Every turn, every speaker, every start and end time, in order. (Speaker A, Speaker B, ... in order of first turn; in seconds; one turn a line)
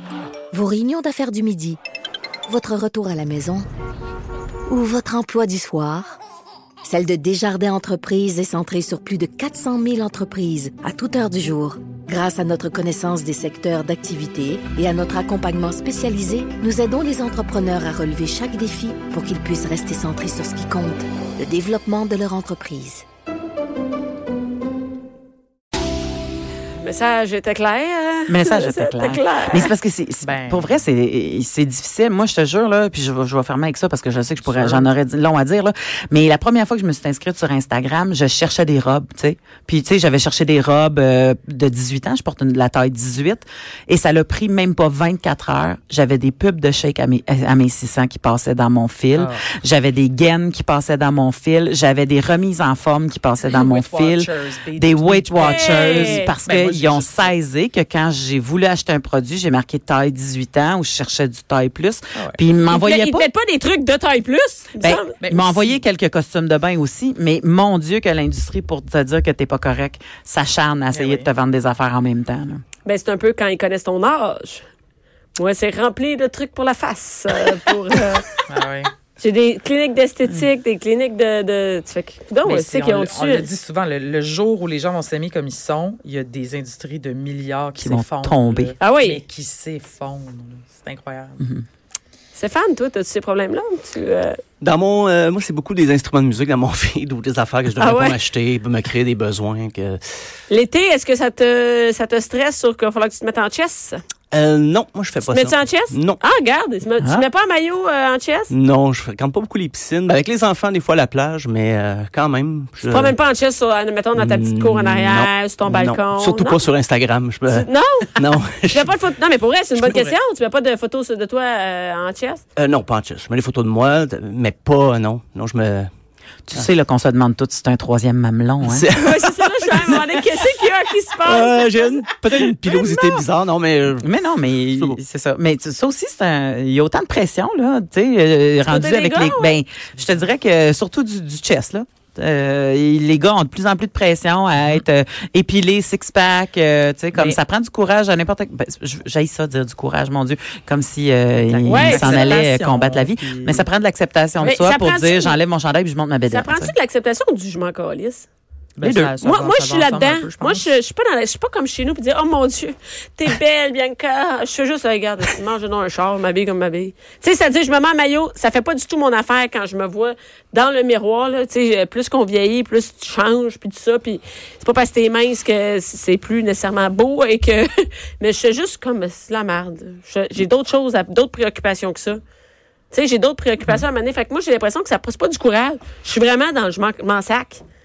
Speaker A: 0.5-1.8
Speaker A: 2.5-3.7
Speaker A: 4.7-6.2
Speaker A: 6.8-23.1
Speaker B: 26.8-29.7
Speaker C: 28.3-63.3
Speaker D: 30.2-30.6
Speaker D: 34.5-34.8
Speaker D: 53.5-57.3
Speaker B: 55.4-56.3
Speaker B: 62.7-65.1
Speaker C: 64.8-72.6
Speaker D: 65.2-65.8
Speaker D: 70.9-71.3
Speaker B: 72.8-74.6
Speaker B: 75.4-78.3
Speaker D: 78.5-78.9
Speaker B: 79.2-83.5
Speaker D: 82.5-91.4
Speaker C: 87.8-88.7
Speaker B: 88.8-89.2
Speaker B: 92.3-94.4
Speaker E: 94.6-100.0
Speaker B: 97.8-98.2
Speaker B: 100.5-104.0
Speaker E: 104.3-106.2
Speaker B: 105.3-108.5
Speaker E: 108.5-113.2
Speaker B: 112.9-116.6
Speaker E: 114.2-119.0
Speaker B: 117.5-122.4
Speaker E: 119.8-120.1
Speaker E: 122.6-125.9
Speaker C: 126.5-128.9
Speaker E: 128.6-130.1
Speaker B: 129.0-132.1
Speaker E: 131.2-134.1
Speaker B: 132.6-133.2
Speaker C: 134.0-156.7
Speaker E: 134.7-135.0
Speaker B: 138.7-139.6
Speaker D: 151.5-153.7
Speaker B: 151.7-152.3
Speaker B: 154.4-155.4
Speaker B: 156.3-158.3
Speaker D: 158.8-160.7
Speaker C: 158.8-159.2
Speaker B: 159.2-182.2
Speaker B: 182.9-187.6